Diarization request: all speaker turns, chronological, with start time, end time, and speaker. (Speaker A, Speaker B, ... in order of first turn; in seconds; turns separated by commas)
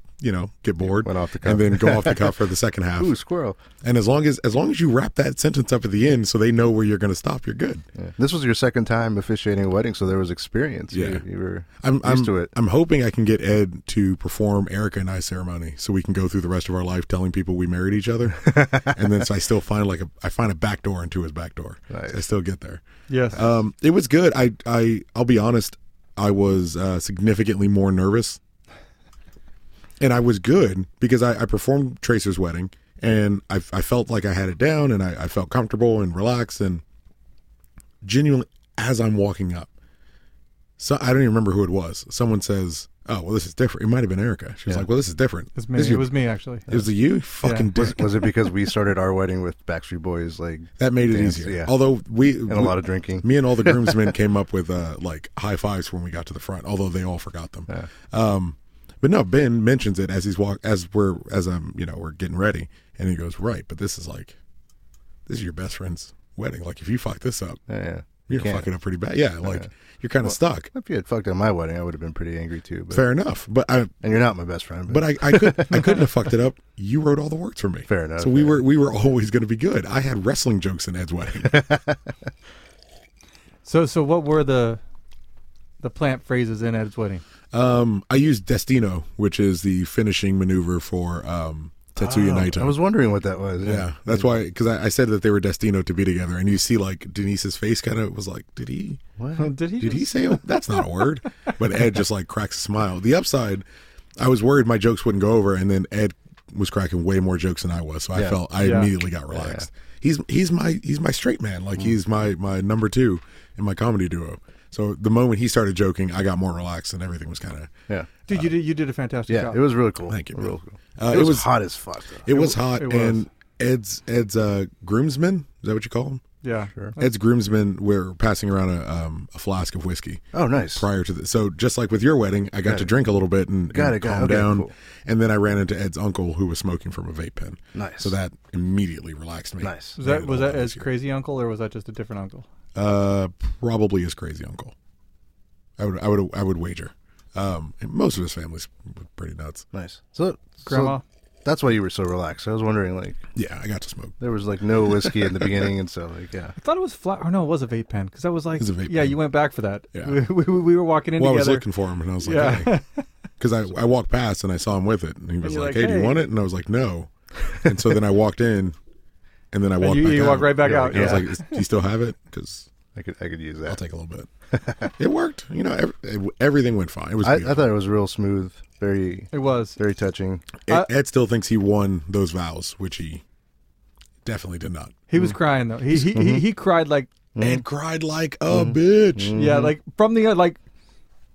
Speaker A: 0.2-3.2, Speaker B: 0.9-2.4, Speaker B: 3.0-3.6, Speaker A: 3.8-7.8, Speaker B: 8.0-12.5, Speaker A: 10.9-11.2, Speaker A: 11.8-28.4, Speaker B: 18.5-18.9, Speaker B: 21.9-22.2, Speaker C: 23.1-23.4, Speaker A: 30.0-36.8, Speaker A: 38.0-39.7, Speaker A: 40.8-46.1, Speaker C: 45.6-46.7, Speaker A: 46.7-48.1, Speaker C: 47.4-47.7, Speaker B: 47.8-51.7, Speaker A: 50.8-64.4, Speaker B: 52.5-54.1, Speaker A: 65.3-67.6, Speaker B: 67.7-68.7, Speaker A: 68.3-70.7, Speaker B: 69.4-69.7, Speaker B: 70.2-73.1, Speaker A: 72.9-74.0, Speaker B: 74.0-76.1, Speaker A: 74.9-81.7, Speaker B: 77.9-78.6, Speaker B: 81.4-82.1, Speaker C: 83.7-84.8, Speaker C: 85.8-87.2, Speaker A: 87.5-92.8, Speaker B: 92.0-94.4, Speaker A: 93.6-99.0, Speaker B: 99.2-99.5, Speaker C: 99.4-100.4, Speaker A: 99.8-103.7, Speaker A: 104.2-117.7, Speaker B: 108.2-108.4, Speaker C: 108.6-108.9, Speaker B: 109.3-109.7, Speaker C: 118.3-119.6, Speaker B: 119.3-122.3, Speaker A: 120.1-121.5, Speaker A: 122.2-126.2, Speaker C: 122.3-123.2, Speaker C: 126.4-127.1, Speaker A: 127.0-130.2, Speaker B: 130.3-130.9, Speaker A: 130.7-140.9, Speaker B: 132.7-132.9, Speaker B: 133.7-134.7, Speaker B: 137.8-138.2, Speaker B: 139.6-140.0, Speaker C: 140.0-142.5, Speaker A: 142.8-144.7, Speaker A: 145.8-149.7, Speaker B: 149.7-153.2, Speaker C: 150.7-151.0, Speaker A: 153.3-154.2, Speaker B: 154.2-156.6, Speaker A: 154.9-155.6, Speaker C: 156.6-161.7, Speaker A: 158.6-159.2, Speaker A: 159.9-160.2, Speaker A: 161.2-162.7, Speaker C: 162.2-163.0, Speaker A: 163.4-168.8, Speaker C: 165.4-166.3, Speaker A: 169.5-172.7, Speaker C: 169.8-171.6, Speaker B: 170.6-171.2, Speaker B: 172.9-173.8, Speaker A: 173.7-174.3, Speaker B: 174.5-174.9, Speaker A: 175.0-177.7, Speaker B: 177.2-180.5, Speaker C: 179.3-179.8, Speaker A: 180.7-183.2, Speaker A: 184.2-185.0, Speaker C: 185.1-187.1, Speaker B: 185.9-186.5, Speaker B: 187.3-187.7, Speaker A: 187.4-189.4, Speaker B: 188.5-189.7, Speaker C: 189.4-190.6